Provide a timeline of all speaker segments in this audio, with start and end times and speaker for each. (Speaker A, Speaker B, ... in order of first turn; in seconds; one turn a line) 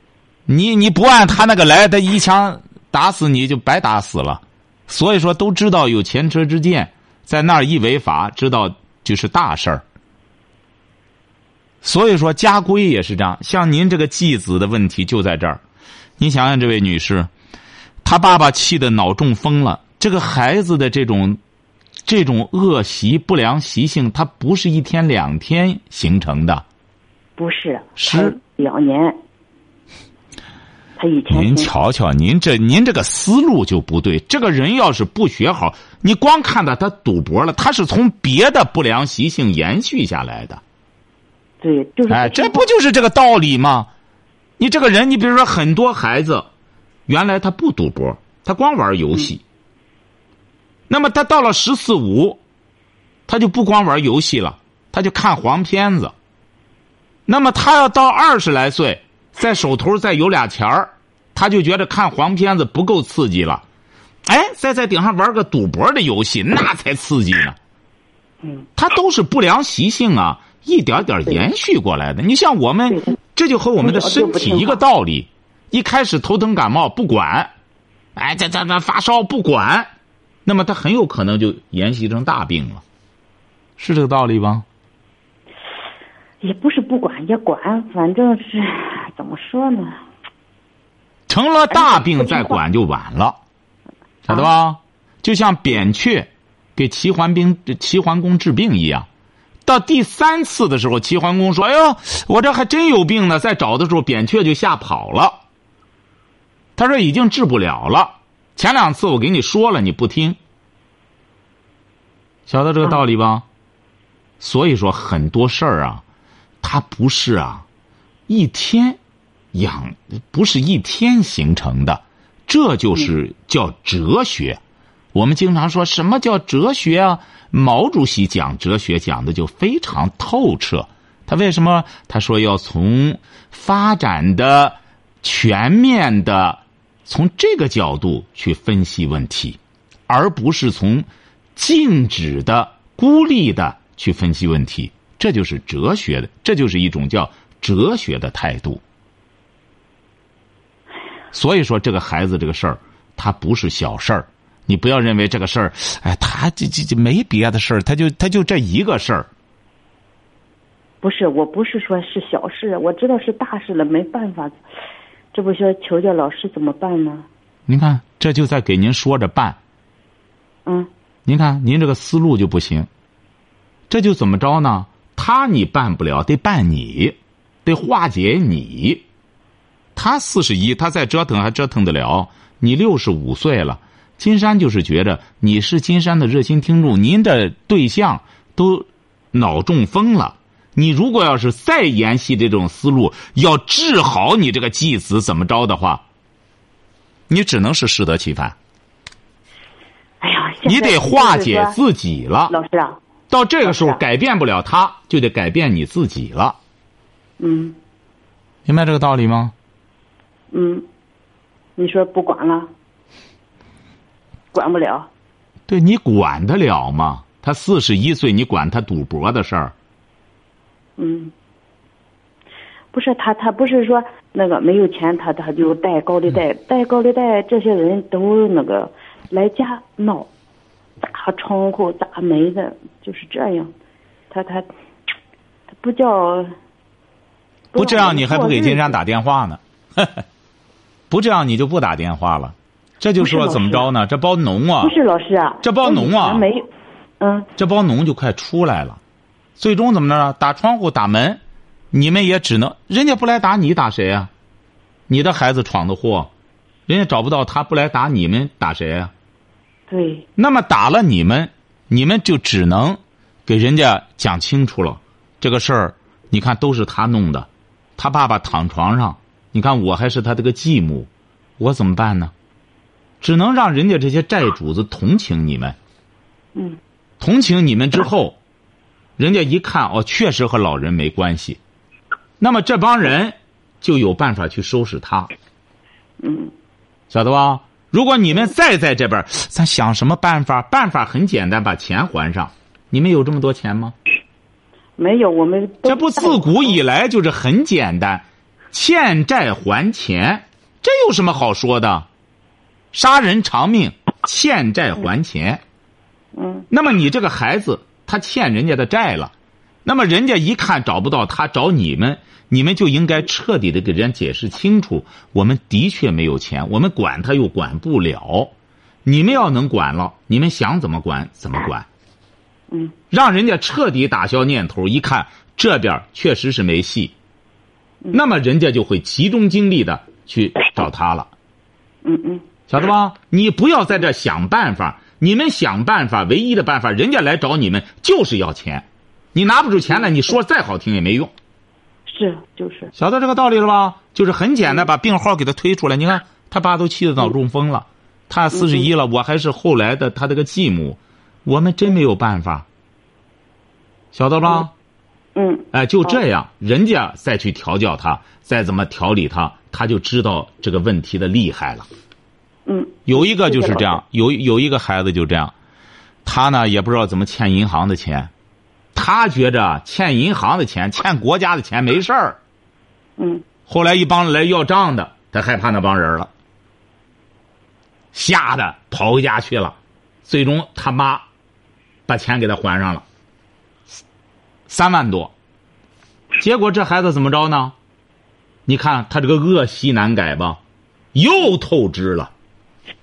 Speaker A: 0.5-9.8
Speaker A: 11.8-15.6
Speaker A: 16.2-17.3
Speaker A: 18.0-21.4
Speaker A: 22.1-26.6
Speaker B: 27.4-29.2
Speaker A: 28.0-28.4
Speaker B: 31.0-31.8
Speaker A: 31.3-40.6
Speaker B: 41.6-42.7
Speaker A: 42.1-43.9
Speaker A: 44.6-46.5
Speaker A: 47.1-49.4
Speaker A: 50.9-52.4
Speaker A: 53.3-56.1
Speaker A: 57.3-63.6
Speaker A: 64.2-67.6
Speaker B: 68.4-68.7
Speaker A: 68.8-77.5
Speaker B: 73.8-74.8
Speaker A: 78.2-79.9
Speaker A: 80.5-82.8
Speaker A: 83.8-84.7
Speaker B: 86.4-90.0
Speaker A: 91.3-93.4
Speaker B: 91.7-92.6
Speaker A: 94.3-99.1
Speaker A: 99.7-105.4
Speaker A: 106.8-110.4
Speaker A: 112.5-113.5
Speaker A: 114.4-116.0
Speaker A: 116.6-117.7
Speaker A: 118.3-119.0
Speaker A: 119.5-124.6
Speaker A: 125.1-148.8
Speaker A: 151.3-159.3
Speaker B: 161.0-164.6
Speaker B: 165.3-167.3
Speaker A: 167.7-169.6
Speaker A: 171.3-172.9
Speaker A: 173.9-179.0
Speaker A: 180.0-196.0
Speaker A: 197.3-198.6
Speaker B: 200.2-201.8
Speaker A: 200.6-202.5
Speaker B: 202.5-203.0
Speaker A: 203.3-206.6
Speaker B: 203.6-204.0
Speaker B: 207.4-207.8
Speaker A: 208.7-209.5
Speaker B: 210.5-210.9
Speaker B: 211.8-212.7
Speaker B: 214.5-215.1
Speaker A: 215.7-219.7
Speaker B: 221.0-221.3
Speaker B: 222.9-230.3
Speaker B: 231.0-233.7
Speaker B: 234.3-234.7
Speaker B: 235.7-236.6
Speaker B: 237.7-238.9
Speaker A: 237.8-240.2
Speaker A: 241.1-244.9
Speaker B: 243.2-243.9
Speaker B: 244.8-246.7
Speaker A: 245.6-246.5
Speaker B: 247.2-247.5
Speaker A: 247.6-249.0
Speaker A: 249.6-251.4
Speaker A: 251.9-254.3
Speaker A: 255.1-256.3
Speaker A: 256.9-259.1
Speaker B: 259.9-260.3
Speaker A: 260.4-272.3
Speaker A: 273.2-275.8
Speaker A: 277.2-278.4
Speaker A: 279.2-281.6
Speaker A: 282.4-285.3
Speaker B: 286.2-286.5
Speaker A: 287.1-293.9
Speaker B: 295.0-296.7
Speaker A: 295.9-302.1
Speaker A: 302.9-305.6
Speaker B: 306.4-306.7
Speaker A: 306.7-309.3
Speaker A: 309.9-318.5
Speaker A: 319.1-321.9
Speaker B: 322.7-322.9
Speaker A: 323.1-327.1
Speaker A: 328.1-331.3
Speaker B: 332.0-332.5
Speaker A: 332.7-341.3
Speaker B: 342.1-342.9
Speaker A: 343.0-352.7
Speaker B: 348.5-348.9
Speaker A: 354.1-354.7
Speaker B: 355.4-356.2
Speaker A: 355.7-361.9
Speaker B: 362.7-364.0
Speaker A: 363.1-365.5
Speaker A: 366.2-368.3
Speaker A: 368.9-372.4
Speaker B: 373.2-373.4
Speaker A: 373.7-376.3
Speaker A: 378.1-381.2
Speaker A: 382.1-383.0
Speaker A: 384.7-385.3
Speaker A: 386.4-387.8
Speaker A: 388.7-390.6
Speaker A: 391.1-392.3